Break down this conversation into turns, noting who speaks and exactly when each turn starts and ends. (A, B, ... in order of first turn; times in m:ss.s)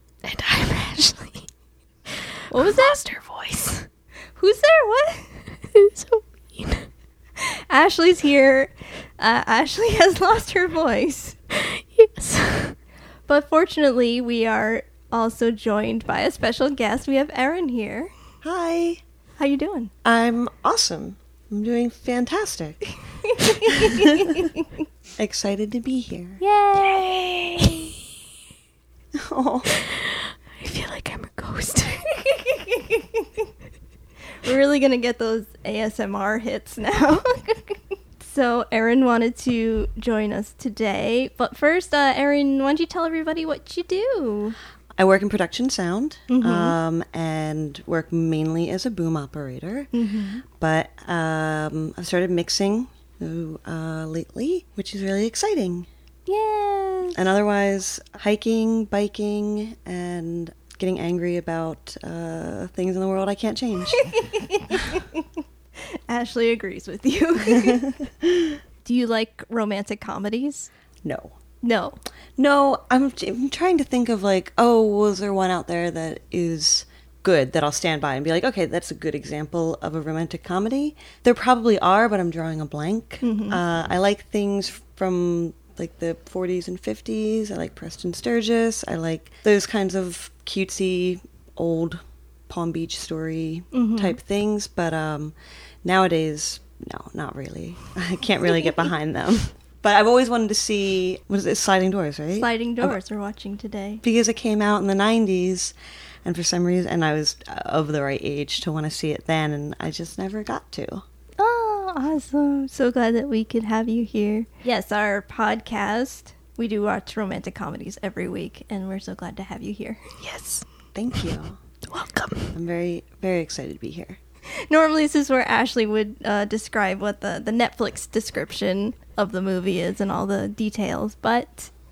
0:00.2-0:01.5 A
0:02.5-0:03.9 A
0:02.5-0:03.0 B
0:04.4-0:05.4 B
0:05.7-0:06.9 A
0:07.4-0:11.4 B
0:11.5-0:12.8 A
0:13.3-0:18.1 B
0:18.4-0:19.0 C
0:19.4-0:19.9 B
0:20.0-0:22.8 C
0:23.2-0:24.5 B
0:23.4-0:24.5 C
0:25.2-0:26.4 C
0:26.4-0:27.9 B
0:26.8-0:27.9 A
0:29.1-0:29.7 C
0:29.6-0:32.2 A
0:32.3-0:33.3 B
0:34.4-0:44.5 B
0:45.0-0:49.9 C
0:46.3-0:46.8 B
0:49.9-0:50.4 B
0:50.5-0:55.9 C
0:56.3-0:57.2 B
0:57.1-1:04.1 C
1:03.9-1:05.2 B
1:05.9-1:08.0 B
1:08.8-1:10.7 B
1:11.0-1:11.3 C
1:11.6-1:12.0 B
1:12.4-1:43.0 C
1:23.2-1:23.6 B
1:33.7-1:34.2 B
1:42.4-1:44.0 B
1:44.0-1:51.0 C
1:51.4-2:00.0 B
2:00.2-2:01.2 A
2:00.9-2:01.6 C
2:01.9-2:02.6 A
2:02.5-2:04.2 C
2:04.5-2:11.7 B